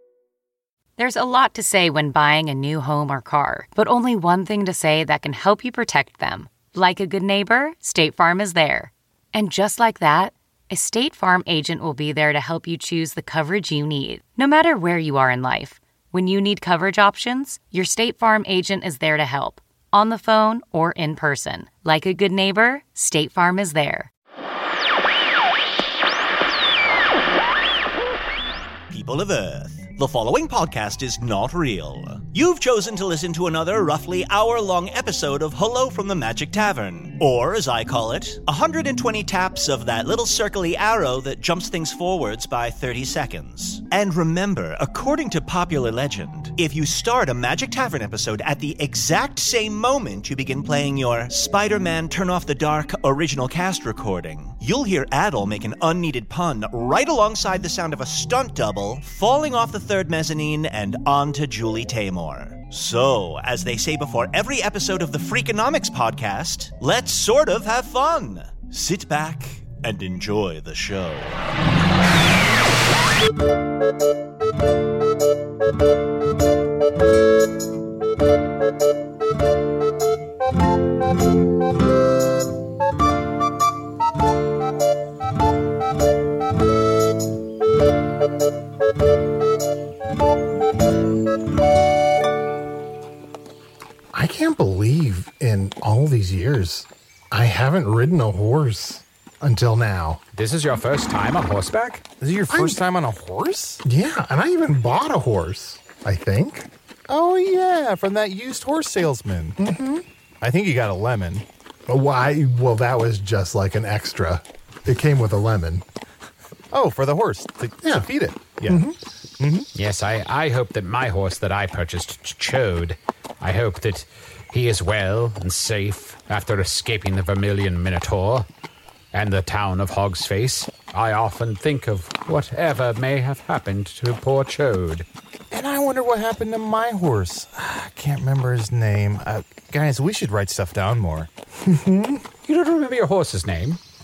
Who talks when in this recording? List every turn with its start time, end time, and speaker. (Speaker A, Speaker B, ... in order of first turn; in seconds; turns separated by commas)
Speaker A: 1.0-24.1, Speaker B: 28.9-71.4, Speaker C: 94.1-100.2, Speaker D: 100.3-102.0, Speaker E: 102.2-103.8, Speaker C: 102.5-102.8, Speaker C: 103.8-106.7, Speaker E: 107.1-109.6, Speaker C: 109.6-110.0, Speaker E: 110.4-111.5, Speaker C: 111.9-115.8, Speaker E: 116.7-118.8, Speaker C: 118.7-119.0, Speaker E: 119.4-119.7, Speaker D: 119.7-128.5, Speaker D: 129.1-135.1, Speaker E: 135.5-141.3, Speaker C: 141.6-142.2, Speaker D: 142.5-143.8